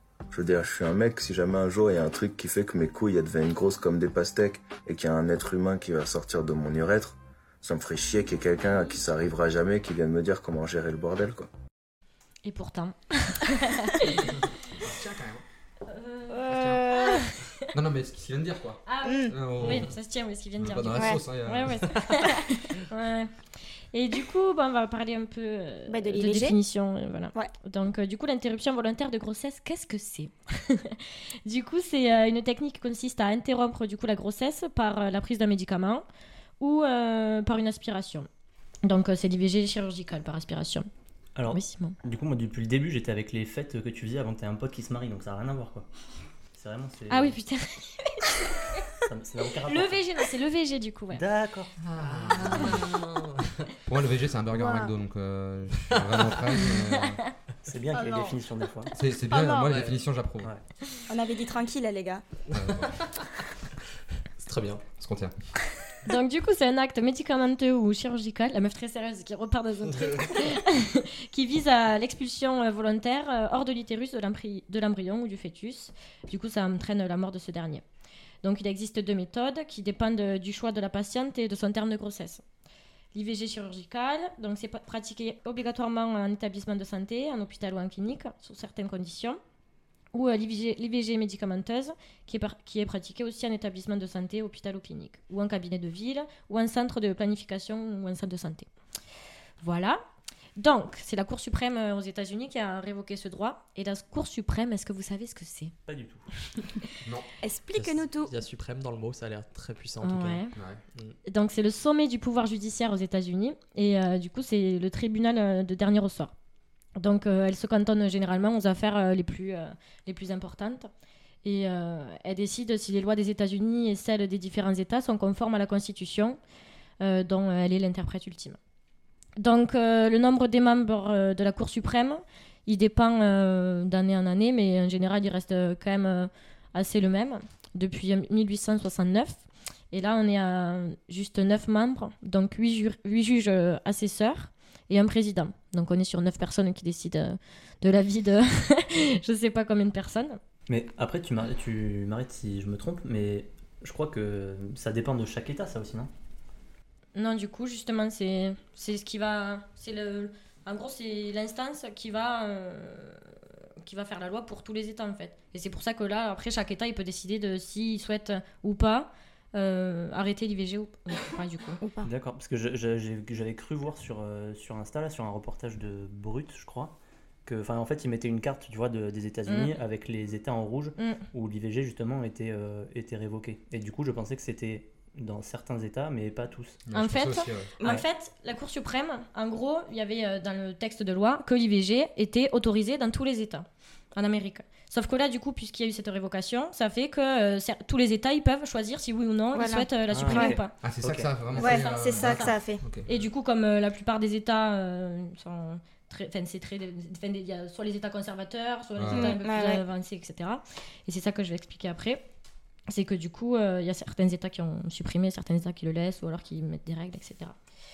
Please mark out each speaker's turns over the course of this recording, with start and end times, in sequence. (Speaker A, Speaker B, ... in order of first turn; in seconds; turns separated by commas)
Speaker A: 0.3-11.5, Speaker B: 12.4-14.4, Speaker C: 14.6-15.4, Speaker B: 15.9-17.6, Speaker D: 16.3-17.3, Speaker C: 16.5-16.8, Speaker C: 17.7-19.9, Speaker B: 18.9-23.3, Speaker D: 19.1-19.4, Speaker C: 20.6-22.0, Speaker B: 23.9-36.0, Speaker D: 25.9-26.6, Speaker B: 36.6-38.3, Speaker B: 38.8-40.9, Speaker E: 41.4-45.9, Speaker B: 41.5-42.0, Speaker E: 46.5-47.4, Speaker B: 47.1-48.8, Speaker E: 49.0-50.0, Speaker B: 49.6-51.2, Speaker E: 51.1-51.8, Speaker C: 51.8-52.9, Speaker F: 52.2-53.6, Speaker C: 53.8-57.2, Speaker B: 54.6-54.9, Speaker F: 55.9-56.4, Speaker B: 56.7-57.3, Speaker E: 57.6-59.0, Speaker D: 57.9-58.3, Speaker C: 58.9-60.5, Speaker D: 59.3-59.8, Speaker F: 59.6-60.0, Speaker D: 61.1-62.2, Speaker C: 62.5-63.0, Speaker F: 62.5-63.2, Speaker F: 64.4-64.8, Speaker C: 65.0-65.3, Speaker B: 66.1-77.8, Speaker F: 69.9-70.4, Speaker B: 78.4-82.4, Speaker B: 83.1-89.4, Speaker B: 90.1-98.7, Speaker B: 99.6-100.0, Speaker B: 100.6-105.8, Speaker E: 105.9-106.3, Speaker D: 107.4-108.3, Speaker F: 107.7-110.4, Speaker B: 110.0-110.5, Speaker C: 110.5-110.8, Speaker B: 111.3-116.3, Speaker B: 117.0-120.9, Speaker B: 121.4-126.4, Speaker B: 127.0-128.6, Speaker B: 129.4-150.4, Speaker E: 150.7-156.1, Speaker B: 157.2-163.3, Speaker B: 163.8-171.8, Speaker D: 171.8-172.1, Speaker E: 172.0-186.8, Speaker B: 179.5-179.8, Speaker B: 181.0-181.2, Speaker C: 186.9-187.7, Speaker B: 186.9-200.7, Speaker D: 187.8-188.0, Speaker D: 199.5-200.6, Speaker E: 200.1-201.3, Speaker C: 200.8-203.1, Speaker B: 201.6-212.2, Speaker D: 201.6-202.8, Speaker C: 209.0-209.4, Speaker D: 209.1-209.8, Speaker B: 212.9-217.6